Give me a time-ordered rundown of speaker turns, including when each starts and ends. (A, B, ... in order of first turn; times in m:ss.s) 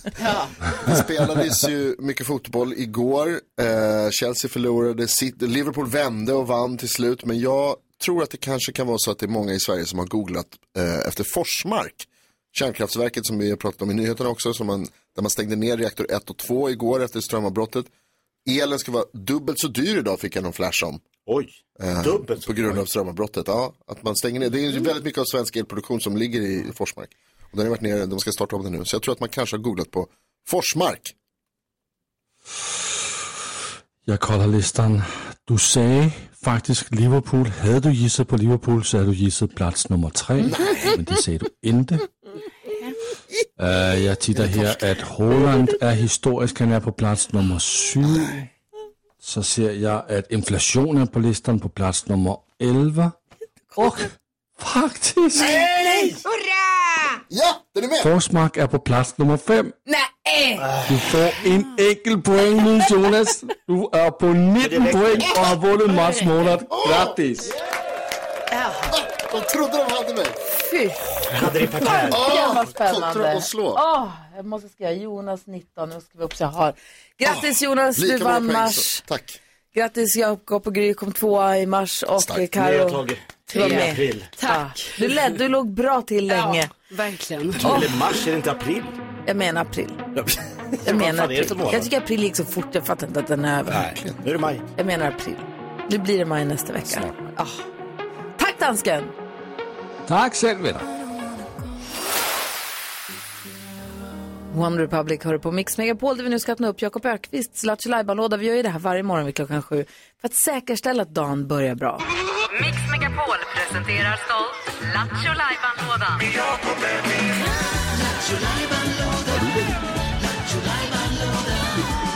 0:00.2-0:00.5 A
0:00.8-0:17.9 B
0:18.5-0:21.0 B
0:21.3-0:22.8 C
0:21.8-0:31.2 B
0:34.0-0:42.1 D
0:40.4-0:40.9 B
0:43.6-0:48.5 D
0:44.4-0:44.9 B
0:49.2-0:53.2 D
0:53.8-0:55.7 D
0:55.4-0:56.2 C
0:57.3-0:58.1 B
0:58.0-0:59.8 D
0:59.9-1:00.6 E
1:00.6-1:00.9 C
1:00.9-1:07.5 D
1:04.6-1:05.4 C
1:05.9-1:06.4 A
1:06.7-1:07.2 B
1:08.9-1:10.4 B
1:10.6-1:11.0 E
1:11.3-1:12.3 C
1:11.8-1:19.0 E
1:12.1-1:13.8 B
1:17.2-1:19.4 B
1:19.7-1:23.0 E
1:22.2-1:22.5 B
1:22.6-1:24.3 C
1:23.5-1:25.2 A
1:23.5-1:26.7 E
1:26.3-1:27.9 A
1:27.6-1:29.0 C
1:27.6-1:28.0 E
1:29.3-1:30.0 E
1:30.2-1:31.9 C
1:30.8-1:33.9 E
1:33.7-1:34.6 C
1:34.8-1:37.6 E
1:36.9-1:37.3 C
1:38.4-1:39.1 E
1:40.1-1:40.9 D
1:44.5-1:52.0 E
1:52.5-1:56.3 F